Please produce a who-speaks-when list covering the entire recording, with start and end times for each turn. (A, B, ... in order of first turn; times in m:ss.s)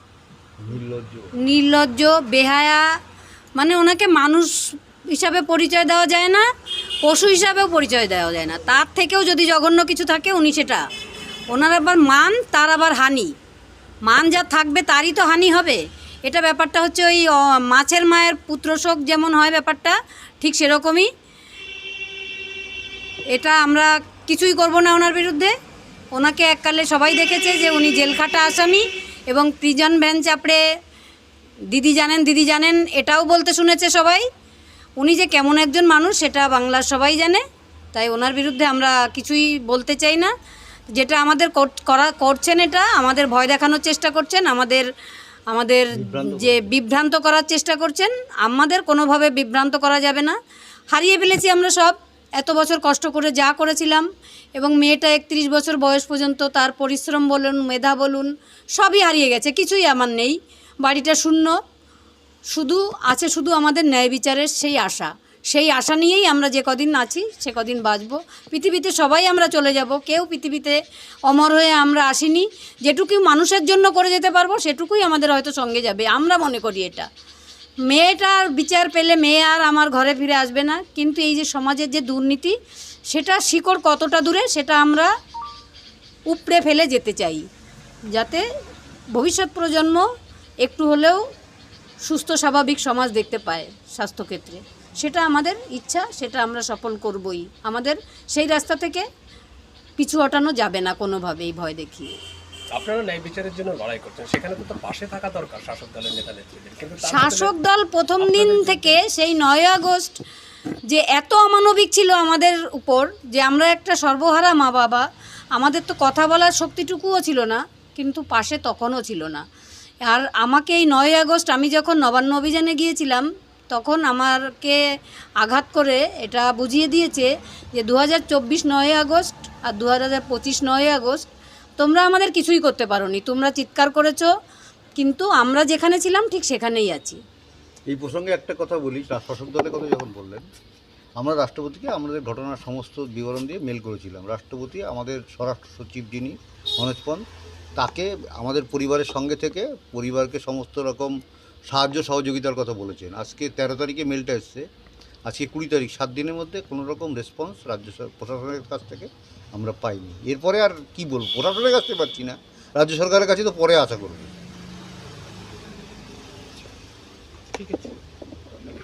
0:00.6-0:01.3 A
0:01.4-0:02.8 B
0:03.6-0:04.5 B
0:05.1-0:06.4 B
0:07.0-0:10.8 B
0:11.5-0:13.3 B
0:14.1-0:21.1 B
0:23.3-0:25.5 B
0:26.1-0:30.6 B
0:31.7-0:34.2 B
0:35.0-0:37.4 B
0:37.9-0:40.3 B
0:41.0-0:44.8 B
0:45.5-0:50.3 B
0:46.0-0:46.7 A
0:50.9-0:54.0 B
0:54.6-1:01.5 B
1:02.5-1:10.8 B
1:11.3-1:17.1 B
1:17.9-1:22.5 B
1:23.1-1:25.1 B
1:26.3-1:27.4 B
1:28.1-1:28.4 B
1:29.1-1:30.0 B
1:30.6-1:31.2 B
1:32.1-1:39.0 B
1:40.0-1:42.1 B
1:42.7-1:47.5 C
1:47.0-1:50.1 B
1:48.2-1:49.0 C
1:50.9-1:55.0 B
1:55.6-1:59.4 B
2:00.1-2:04.8 B
2:05.4-2:11.2 B
2:11.8-2:14.3 B
2:15.0-2:17.2 B
2:17.9-2:20.5 A
2:21.2-2:27.2 A
2:27.8-2:31.2 A
2:31.7-2:34.7 A
2:35.3-2:44.3 A